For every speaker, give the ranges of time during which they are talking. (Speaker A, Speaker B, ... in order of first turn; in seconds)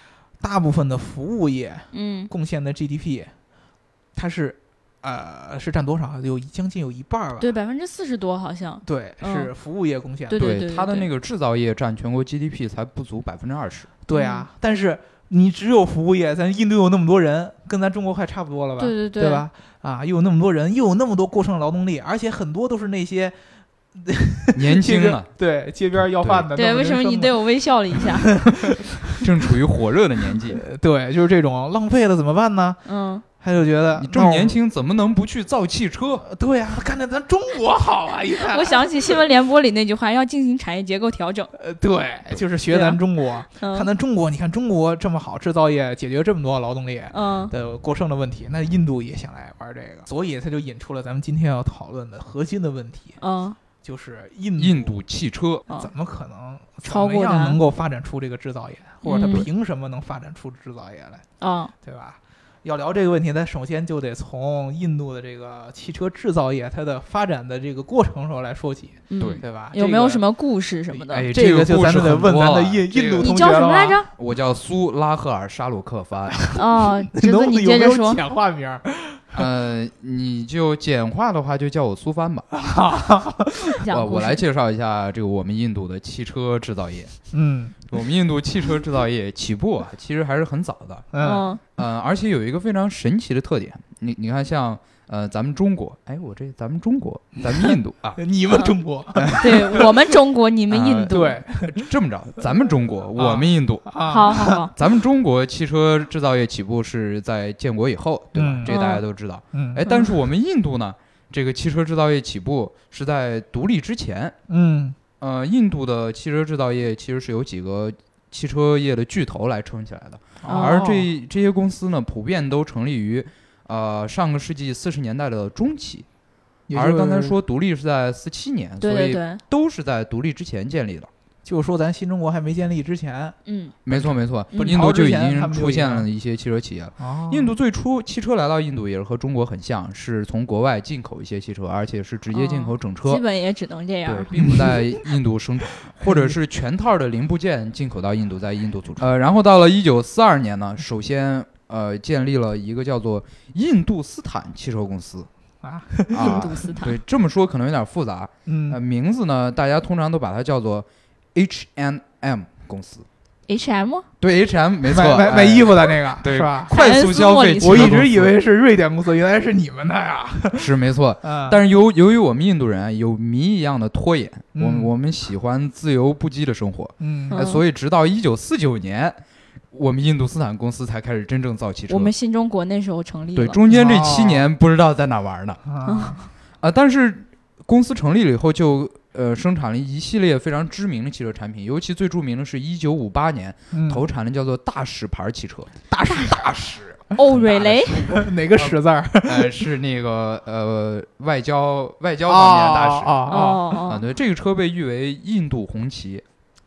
Speaker A: 0.4-3.3, 4.1-7.5, 8.8-10.4, 14.0-23.3, 23.9-27.4, 27.9-29.2, 30.5-32.8, 33.4-34.6, 36.2-39.2, 41.5-53.2, 53.8-54.9, 55.7-61.2, 61.8-70.2, 70.9-74.0, 76.3-79.5, 82.5-83.8, 87.3-87.8, 91.1-91.5, 97.5-99.9, 101.1-101.9, 103.2-104.7, 108.3-108.7, 109.5-109.9, 114.5-115.0, 120.4-121.1, 126.7-127.3, 131.4-136.1, 137.0-137.6, 144.4-144.8, 146.0-146.4, 155.6-156.5, 158.4-158.8, 164.9-166.8, 167.6-171.6, 174.5-174.9, 177.0-177.4, 183.7-184.5, 185.7-186.2, 193.7-194.0, 195.9-196.7, 197.9-199.6, 202.2-203.8
Speaker B: 1.9-2.3, 7.4-9.5, 10.3-11.1, 14.1-14.5, 18.8-19.4, 26.6-28.3, 32.8-33.2, 38.4-41.5, 42.7-43.0, 43.6-43.9, 47.1-47.5, 53.2-53.6, 56.8-57.6, 59.0-59.5, 61.4-61.7, 69.1-71.3, 73.2-74.1, 76.5-78.2, 83.8-84.4, 91.2-91.6, 99.4-101.4, 104.0-104.7, 108.7-109.0, 120.4-120.9, 128.8-129.4, 133.4-133.7, 134.5-134.8, 142.3-144.4, 156.2-157.0, 163.5-164.1, 166.7-168.0, 177.3-177.6, 181.9-183.6, 185.8-186.2, 197.1-198.2, 203.3-204.0
Speaker C: 10.4-13.9, 24.5-25.3, 26.2-26.5, 29.2-30.6, 33.9-36.2, 54.6-55.6, 71.1-73.5, 74.1-76.4, 79.3-82.5, 83.9-87.1, 87.9-91.1, 91.8-98.2, 100.7-103.9, 104.7-114.3, 115.2-126.0, 126.7-131.1, 133.8-143.2, 144.1-155.3, 156.1-163.1, 164.2-168.3, 170.5-179.2, 179.7-182.1, 183.3-185.6, 186.6-206.2